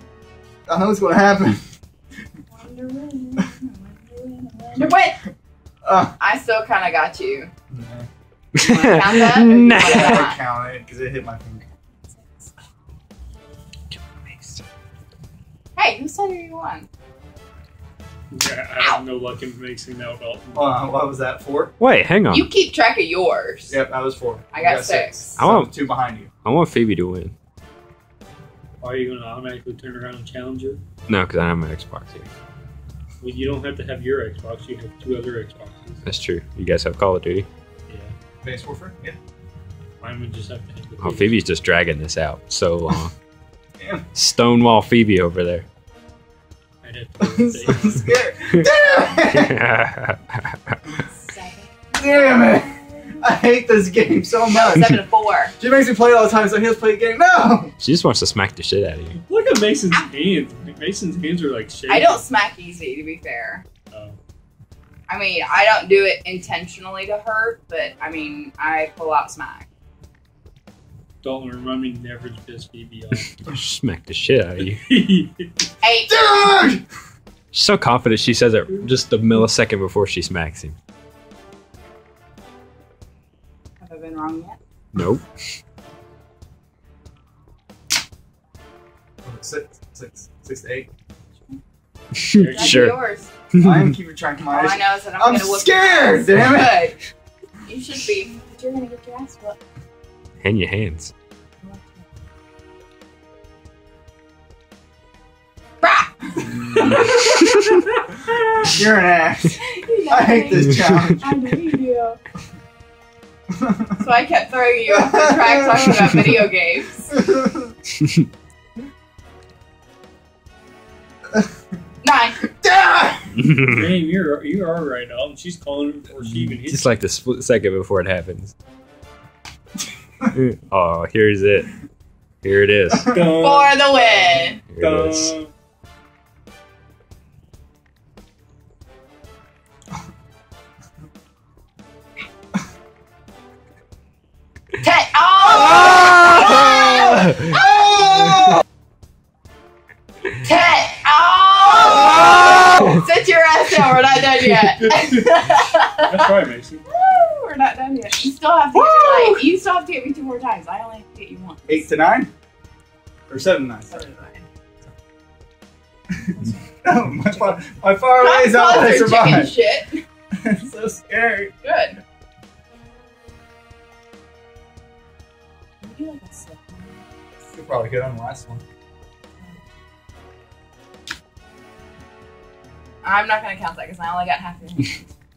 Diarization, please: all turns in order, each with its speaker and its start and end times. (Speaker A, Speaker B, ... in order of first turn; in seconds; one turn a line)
Speaker A: 0.7-1.6
Speaker B: 2.5-5.2
Speaker A: 4.7-5.0
Speaker A: 5.8-6.1
Speaker B: 6.2-7.5
Speaker A: 7.7-8.1
Speaker B: 8.6-10.4
Speaker C: 8.6-10.3
Speaker A: 9.7-11.6
Speaker B: 11.7-12.5
Speaker C: 13.9-14.6
Speaker B: 15.8-16.9
Speaker D: 18.3-20.7
Speaker A: 20.6-21.7
Speaker C: 21.8-22.5
Speaker B: 22.3-23.8
Speaker A: 23.7-26.3
Speaker B: 24.5-25.4
Speaker C: 25.4-25.7
Speaker C: 26.4-27.3
Speaker D: 28.8-30.8
Speaker C: 31.1-32.3
Speaker D: 33.2-36.0
Speaker C: 36.0-37.5
Speaker D: 37.9-38.1
Speaker A: 38.4-39.2
Speaker D: 40.0-41.4
Speaker C: 41.0-43.1
Speaker A: 43.8-44.1
Speaker C: 44.1-45.6
Speaker D: 46.8-48.1
Speaker A: 47.2-49.5
Speaker C: 49.3-50.8
Speaker B: 51.0-53.2
Speaker A: 51.9-55.0
Speaker B: 54.5-55.5
Speaker A: 55.6-57.7
Speaker C: 57.8-59.2
Speaker D: 59.1-62.2
Speaker B: 61.9-63.6
Speaker D: 63.9-64.2
Speaker B: 65.1-69.7
Speaker D: 71.2-73.3
Speaker C: 73.4-74.8
Speaker D: 74.6-75.7
Speaker B: 75.8-76.2
Speaker A: 76.1-76.8
Speaker C: 77.5-80.8
Speaker B: 83.8-84.6
Speaker C: 84.9-85.3
Speaker A: 89.2-90.9
Speaker C: 92.2-93.0
Speaker D: 92.3-92.9
Speaker B: 92.3-93.3
Speaker C: 93.5-93.9
Speaker A: 93.6-96.8
Speaker B: 94.5-97.0
Speaker B: 97.7-99.6
Speaker C: 100.4-101.1
Speaker B: 101.6-102.1
Speaker B: 105.8-107.6
Speaker A: 108.6-111.2
Speaker B: 109.6-112.2
Speaker A: 113.6-114.0
Speaker B: 114.0-117.2
Speaker A: 114.9-116.4
Speaker A: 117.1-117.7
Speaker B: 122.0-122.4
Speaker A: 122.5-123.3
Speaker C: 123.4-123.9
Speaker D: 123.7-126.9
Speaker C: 126.6-128.5
Speaker C: 130.3-131.7
Speaker C: 132.4-133.1
Speaker D: 133.1-135.5
Speaker A: 133.1-133.4
Speaker B: 133.3-134.6
Speaker C: 134.7-135.3
Speaker B: 144.8-148.3
Speaker C: 147.0-147.4
Speaker A: 147.5-148.6
Speaker B: 150.4-156.3
Speaker D: 154.8-155.4
Speaker D: 156.0-156.8
Speaker B: 156.9-161.9
Speaker A: 158.7-159.4
Speaker A: 161.7-162.3
Speaker A: 163.3-163.9
Speaker B: 163.9-164.5
Speaker A: 166.3-169.5
Speaker B: 168.2-170.0
Speaker A: 170.4-171.5
Speaker B: 171.6-172.0
Speaker B: 175.8-177.1
Speaker A: 177.5-178.6
Speaker B: 183.0-185.1